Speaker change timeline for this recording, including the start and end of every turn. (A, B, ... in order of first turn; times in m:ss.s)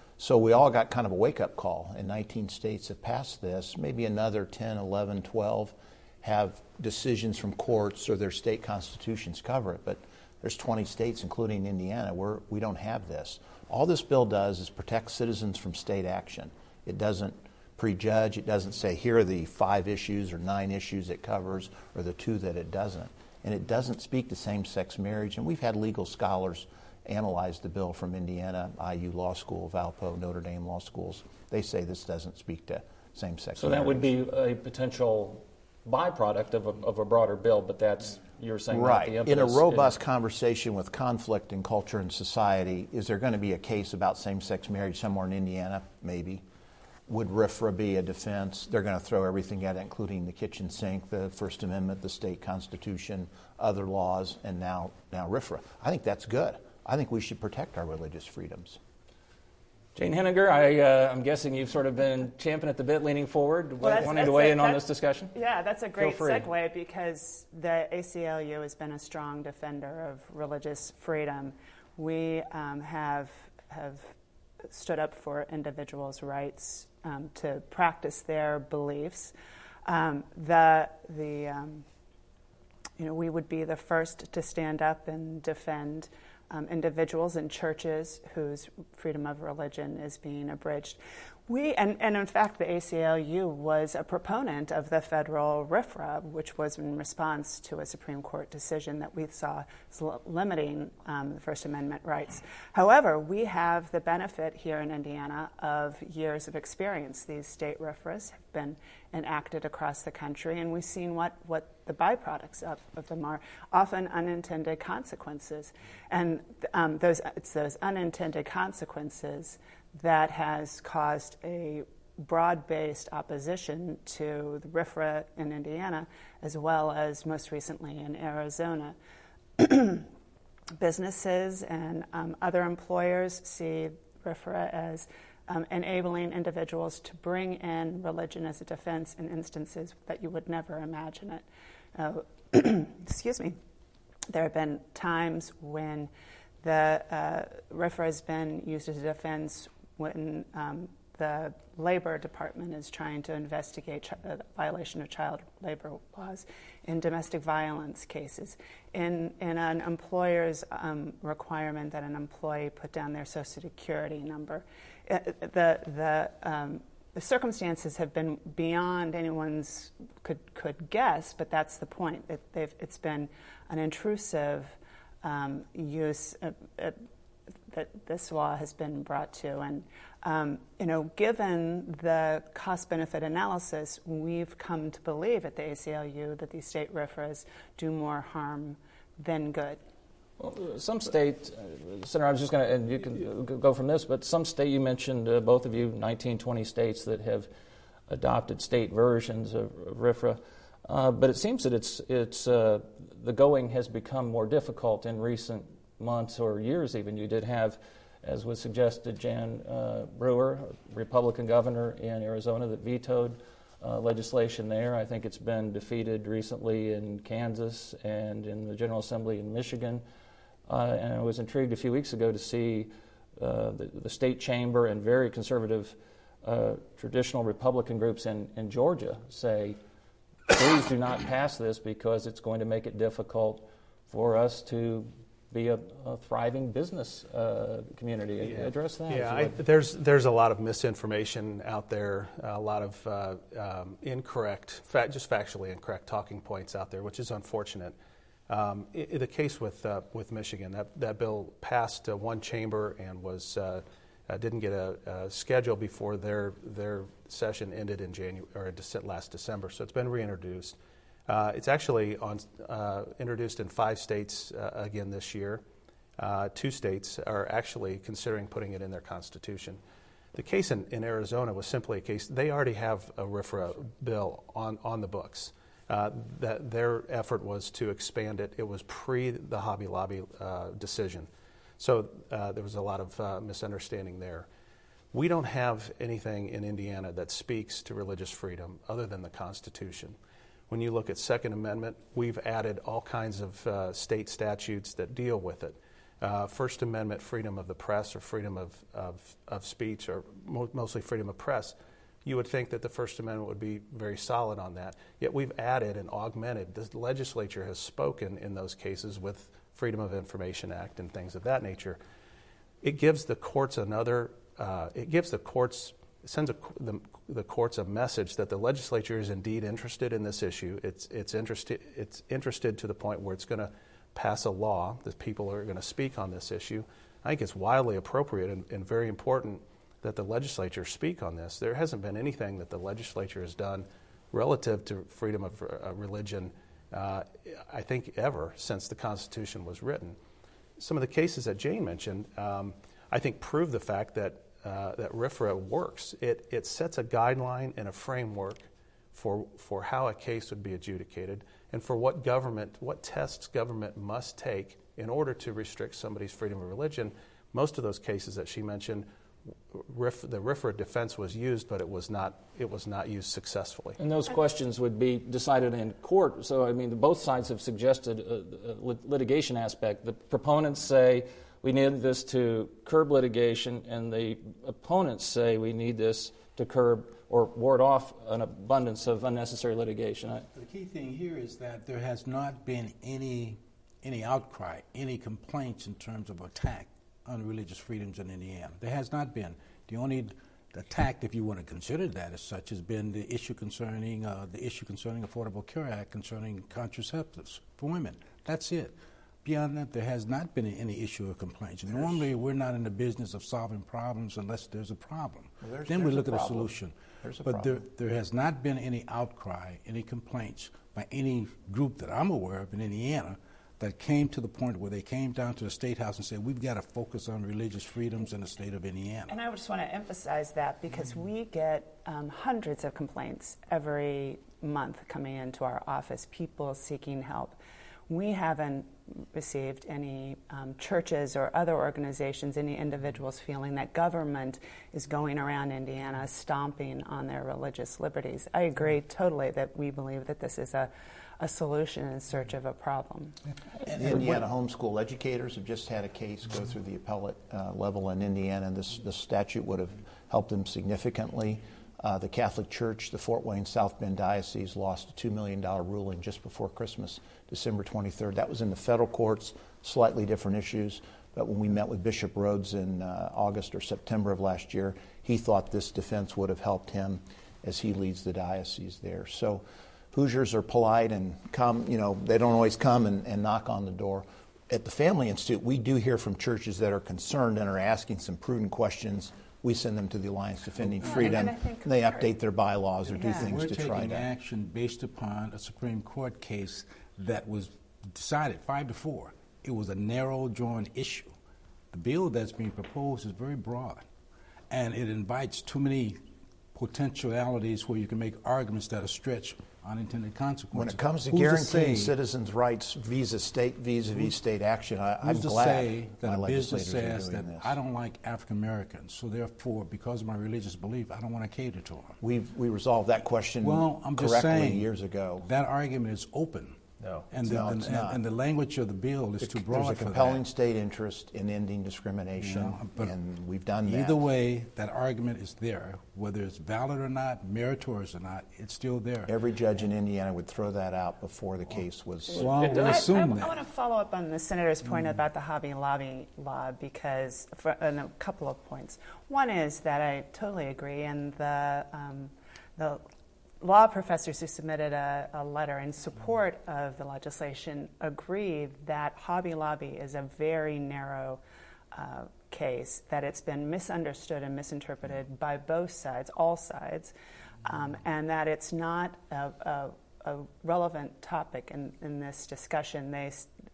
0:00.2-0:34.1 A
0:33.6-0:40.0 B
0:38.7-0:46.4 A
0:47.1-0:58.8 A
1:00.0-1:05.3 B
1:03.8-1:14.1 C
1:06.0-1:06.5 B
1:14.7-1:19.3 C
1:19.8-1:21.8 C
1:23.0-2:09.0 C
2:09.6-2:10.1 C
2:10.8-2:21.4 C
2:22.0-2:23.6 C
2:24.3-2:26.1 C
2:26.6-2:57.1 C
2:57.7-3:09.8 C
3:10.4-3:17.5 B
3:18.1-3:40.0 B
3:40.7-3:49.8 B
3:50.5-3:59.6 B
3:58.4-4:08.0 D
4:08.5-4:25.6 D
4:26.2-4:29.8 D
4:30.3-4:44.5 D
4:45.1-4:50.2 D
4:50.7-5:12.0 D
5:12.8-5:40.2 D
5:40.8-5:59.1 D
5:59.7-6:04.0 D
6:04.0-6:20.5 B
6:20.5-6:59.3 E
6:45.6-6:47.8 A
6:59.3-7:07.6 C
7:08.1-7:23.4 C
7:23.9-7:24.4 E
7:23.9-8:04.3 A
8:00.8-8:01.5 E
8:01.0-8:02.3 C
8:03.1-8:03.6 C
8:03.2-8:11.3 E
8:11.9-8:14.1 E
8:14.7-8:16.2 E
8:16.7-8:22.2 E
8:20.7-8:27.8 A
8:25.2-8:32.2 E
8:32.2-8:35.5 A
8:33.6-8:34.9 E
8:35.4-8:36.8 E
8:37.0-8:37.3 D
8:37.3-8:40.4 E
8:37.4-8:38.2 A
8:39.4-8:44.2 A
8:42.4-8:43.1 E
8:43.9-8:49.3 E
8:49.3-8:52.5 A
8:52.3-8:53.6 E
8:52.6-9:03.0 C
9:03.6-9:11.4 C
9:11.9-9:17.1 C
9:17.6-9:23.5 C